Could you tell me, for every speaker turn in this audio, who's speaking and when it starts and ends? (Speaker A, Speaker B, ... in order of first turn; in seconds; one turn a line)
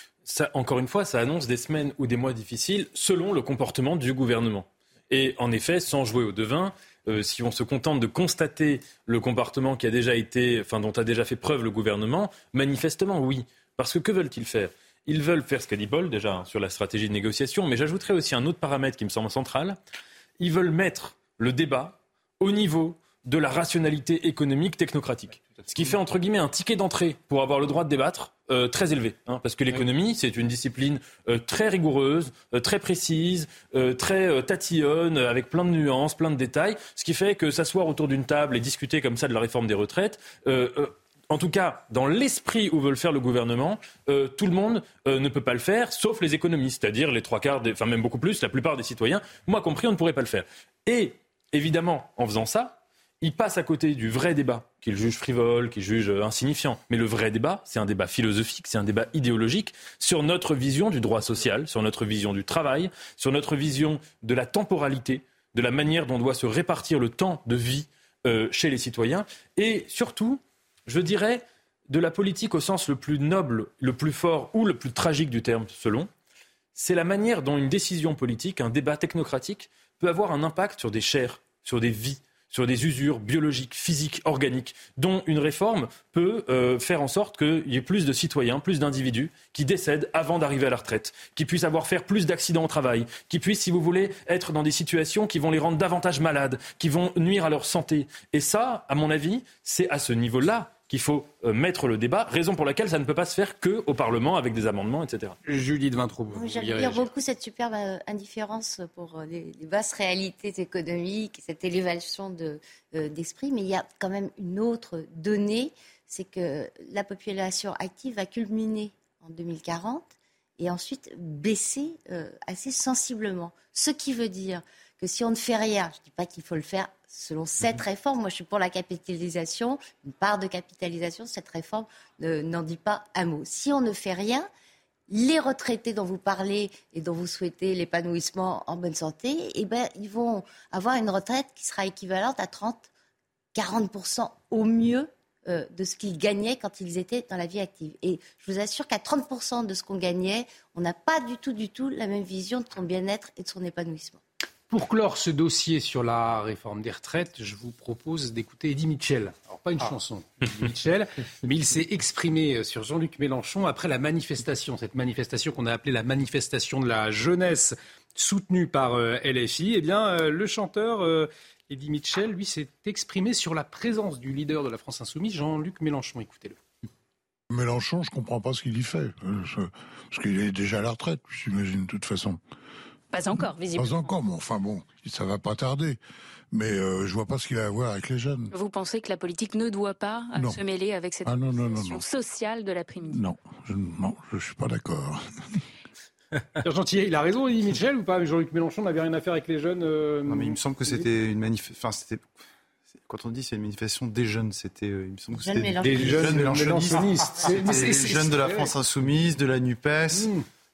Speaker A: 0.2-19.8
Speaker A: 20.4-76.1
Speaker A: 76.7-105.4
Speaker B: 105.4-107.1
Speaker C: 106.3-134.5
Speaker C: 135.1-142.9
Speaker C: 143.5-154.2
Speaker B: 154.7-176.6
Speaker D: 177.5-182.4
Speaker E: 183.1-184.1
Speaker D: 183.7-186.0
Speaker D: 186.5-188.5
Speaker E: 188.5-193.2
Speaker D: 190.3-190.6
Speaker D: 191.2-192.0
Speaker D: 193.1-195.4
Speaker B: 196.6-201.0
Speaker F: 200.3-202.3
Speaker F: 203.0-210.3
Speaker C: 205.4-206.4
Speaker B: 205.8-208.7
Speaker B: 210.1-210.4